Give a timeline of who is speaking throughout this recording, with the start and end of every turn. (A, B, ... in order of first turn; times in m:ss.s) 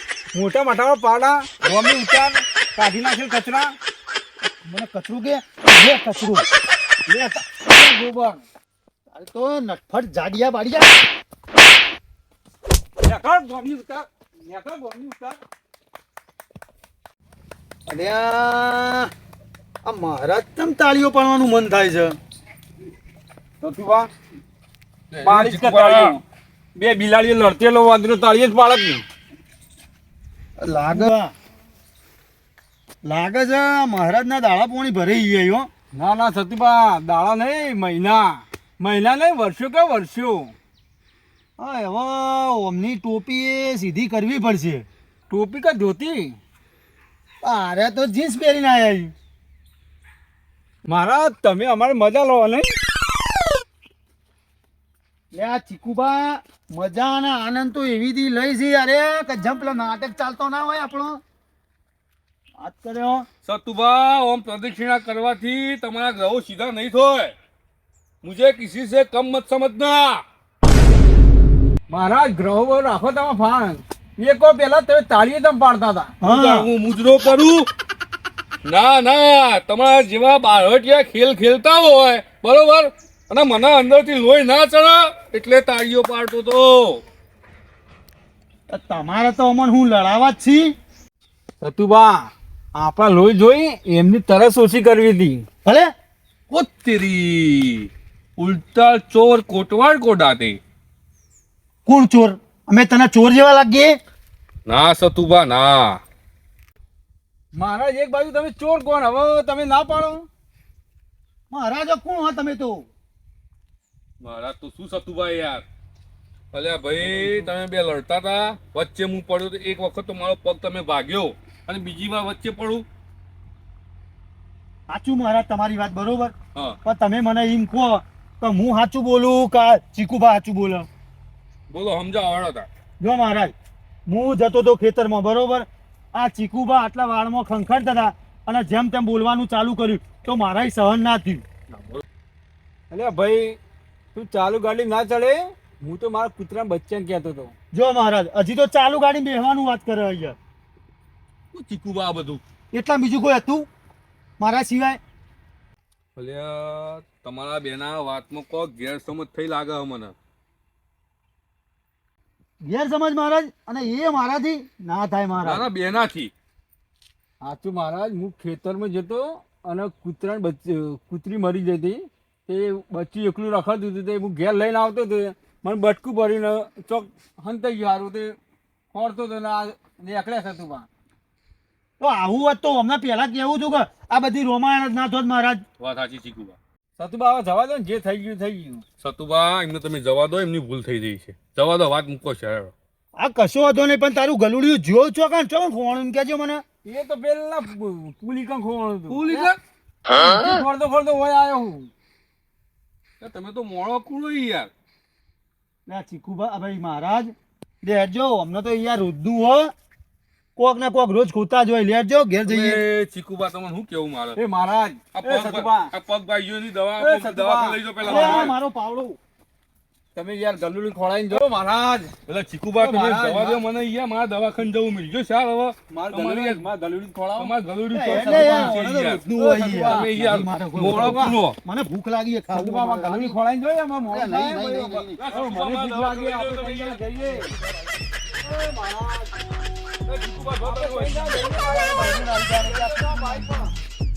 0:00.3-0:03.8 A
0:04.6-0:06.5 B
0:07.1-0:07.4 B
0:07.5-0:08.4 A
0:09.1-0:11.0 B
0:13.0-0:15.4 A
0:17.9-0:19.1 B
0:19.8-0:22.2 B
0:23.6-0:24.1 A
0:25.1-0:26.2 C
0:25.2-0:26.2 A
0:26.7-0:29.0 A
0:30.6-0:31.3 B
0:33.0-0:35.7 B
0:35.9-0:40.5 A
0:41.6-0:44.9 B
0:45.3-0:46.4 A
0:47.4-0:49.1 B
0:50.8-0:52.8 A
0:55.3-1:01.2 B
1:02.6-1:03.2 B
1:03.4-1:07.3 C
1:08.2-1:10.2 C
1:11.9-1:16.1 A
1:16.2-1:16.7 B
1:16.2-1:17.7 C
1:18.6-1:27.0 C
1:28.7-1:30.7 B
1:31.6-1:35.4 A
1:36.5-1:40.6 C
1:41.8-1:43.9 B
1:44.6-1:46.0 C
1:47.5-1:50.3 A
1:51.5-1:52.9 B
1:54.2-1:55.6 C
1:56.5-2:02.8 C
1:57.0-1:57.5 A
2:04.9-2:10.9 B
2:11.7-2:12.7 C
2:13.0-2:13.5 B
2:14.1-2:21.4 B
2:21.8-2:22.0 C
2:22.9-2:23.6 A
2:24.1-2:27.5 A
2:27.7-2:30.4 B
2:31.5-2:32.4 C
2:32.7-2:33.7 B
2:34.4-2:35.0 B
2:36.2-2:40.1 C
2:42.6-2:45.6 B
2:45.4-2:46.3 C
2:47.4-2:58.4 A
2:58.9-3:00.9 A
3:02.0-3:05.6 B
3:05.8-3:06.6 C
3:07.0-3:08.8 A
3:09.0-3:12.7 C
3:13.2-3:16.6 B
3:16.8-3:19.5 A
3:19.1-3:19.6 C
3:20.1-3:21.9 A
3:23.2-3:24.7 C
3:25.9-3:29.7 B
3:30.6-3:32.8 B
3:32.4-3:34.4 C
3:34.3-3:35.9 A
3:35.1-3:38.5 C
3:37.0-3:38.5 A
3:38.0-3:39.2 B
3:40.1-3:42.1 A
3:42.3-3:46.7 C
3:42.8-3:43.6 A
3:45.9-3:50.1 A
3:47.4-3:51.6 C
3:47.9-3:53.4 B
3:50.8-3:51.4 A
3:52.5-3:57.5 A
3:54.1-3:55.2 B
3:55.2-3:58.0 C
3:58.4-3:59.3 A
4:00.0-4:01.6 C
4:00.6-4:03.7 A
4:01.6-4:03.7 B